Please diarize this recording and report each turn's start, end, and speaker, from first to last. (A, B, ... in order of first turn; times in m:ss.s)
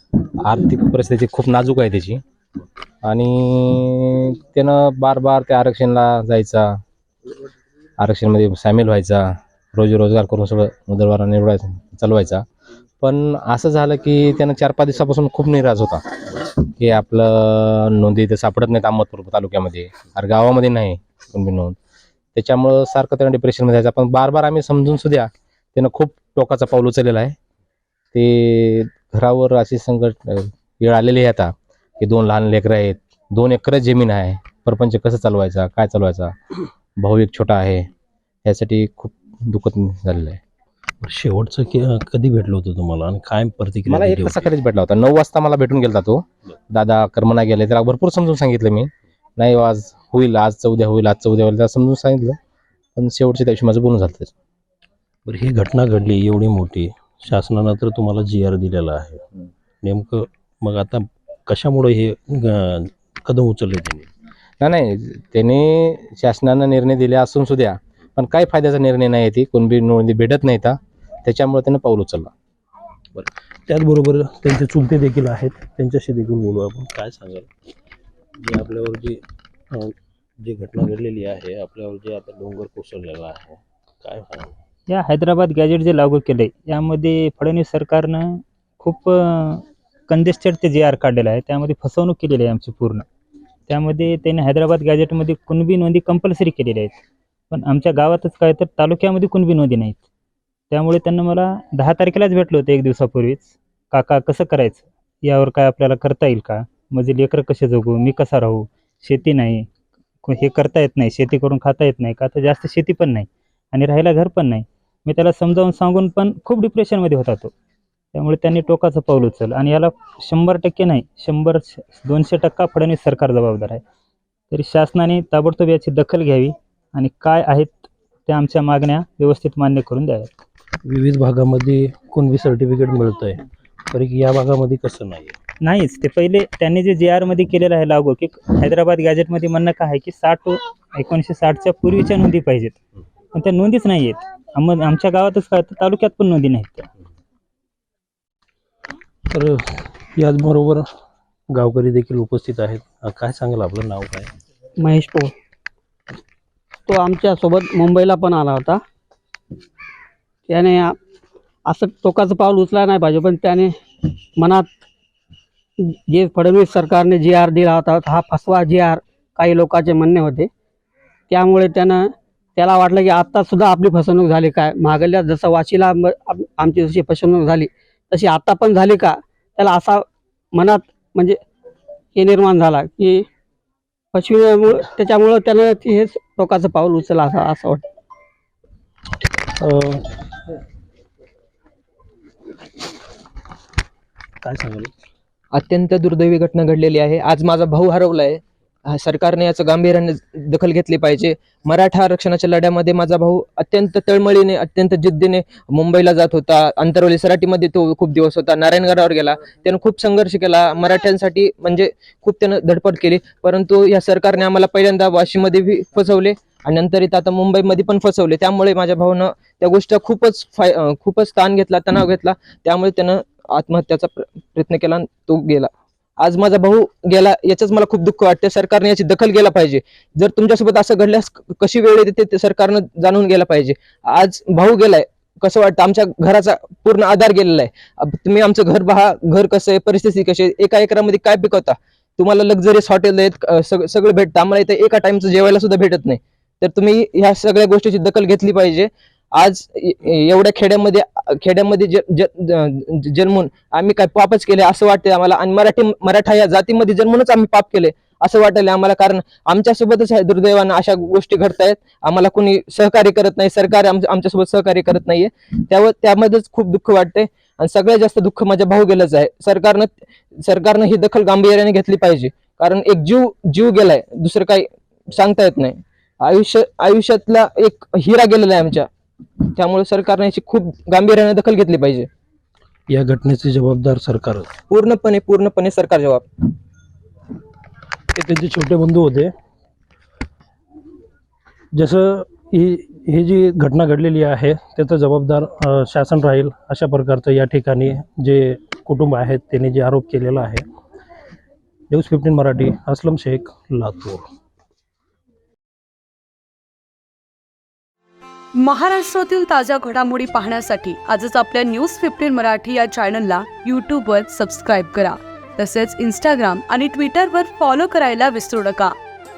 0:00.4-0:02.2 A
0:03.0-0:06.7 A
0:08.0-0:12.4 A
0:13.0-0:21.7 A
0:22.3-0:27.3 A
0:28.1-0:36.3 A
0:37.0-0:37.9 A
0:38.4-0:40.4 A
0:41.0-0:44.4 B
0:43.9-0:52.4 A
0:53.0-0:54.3 A
0:55.2-0:59.2 B
0:59.8-1:04.1 B
1:04.6-1:12.3 A
1:13.1-1:17.5 B
1:18.4-1:19.2 B
1:19.7-1:24.5 B
1:24.9-1:33.0 C
1:33.7-1:37.0 C
1:37.5-1:40.0 C
1:40.7-1:49.7 C
1:50.2-1:57.5 C
1:58.1-2:03.8 C
2:04.5-2:10.3 C
2:10.8-2:15.4 B
2:15.6-2:22.8 C
2:23.3-2:26.8 C
2:29.3-2:30.8 B
2:31.5-2:34.3 B
2:34.8-2:35.3 D
2:36.9-2:38.8 D
2:40.5-2:41.0 D
2:41.7-2:43.7 D
2:44.4-2:44.7 D
2:46.1-2:50.5 D
2:51.3-2:52.0 D
2:52.6-3:00.0 D
3:00.5-3:01.4 D
3:02.1-3:03.2 D
3:04.1-3:07.8 D
3:09.6-3:10.0 B
3:14.4-3:14.9 B
3:15.5-4:38.9 E
4:39.4-4:42.1 E
4:42.9-4:44.5 B
4:44.7-4:46.5 E
4:48.1-4:49.3 B
4:51.7-5:00.6 B
5:01.9-5:04.2 B
5:08.5-5:19.0 F